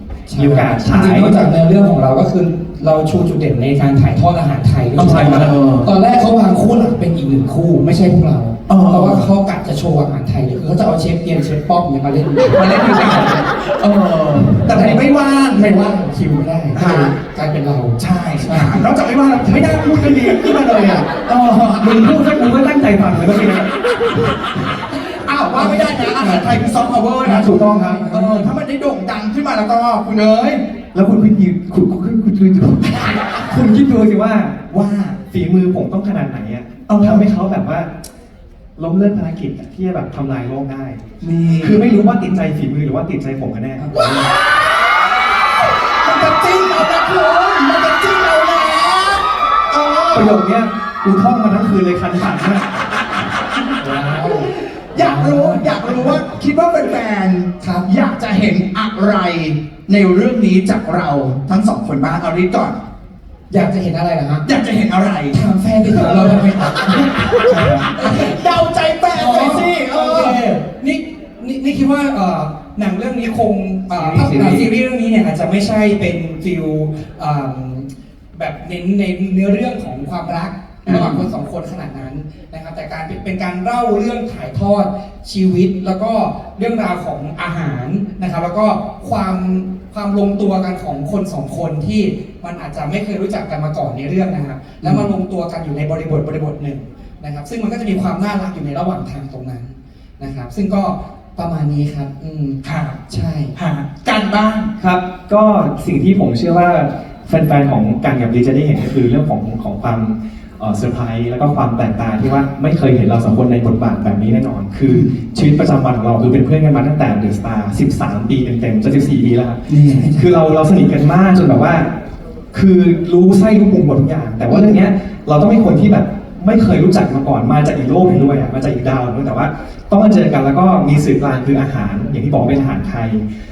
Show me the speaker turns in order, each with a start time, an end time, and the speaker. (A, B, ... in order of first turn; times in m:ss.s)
0:00.3-0:13.3 A
0:00.4-0:01.4 B
0:05.0-0:05.5 B
0:05.0-0:05.9 C
0:08.7-0:09.3 C
0:12.5-0:15.7 C
0:14.7-0:18.9 A
0:16.7-0:17.2 C
0:18.0-0:22.0 C
0:20.1-0:20.4 B
0:21.8-0:23.7 B
0:25.0-0:30.6 C
0:25.5-0:26.6 A
0:27.2-0:28.5 B
0:30.9-0:34.7 B
0:34.7-0:35.2 C
0:35.3-0:37.9 B
0:36.9-0:37.3 C
0:38.8-0:41.0 B
0:41.2-0:42.0 C
0:41.6-0:44.3 B
0:44.0-0:44.3 C
0:45.8-0:50.4 C
0:50.1-0:52.8 B
0:53.8-0:56.2 A
0:54.9-1:02.8 C
0:57.6-0:57.9 A
1:03.5-1:04.5 A
1:04.4-1:10.4 C
1:05.3-1:08.4 A
1:09.2-1:43.5 A
1:13.9-1:14.7 B
1:20.9-1:21.2 B
1:42.6-1:43.0 C
1:43.6-1:44.7 C
1:44.8-2:01.9 B
1:54.9-1:55.2 C
1:59.7-2:00.2 C
2:02.5-2:13.2 B
2:04.5-2:04.8 C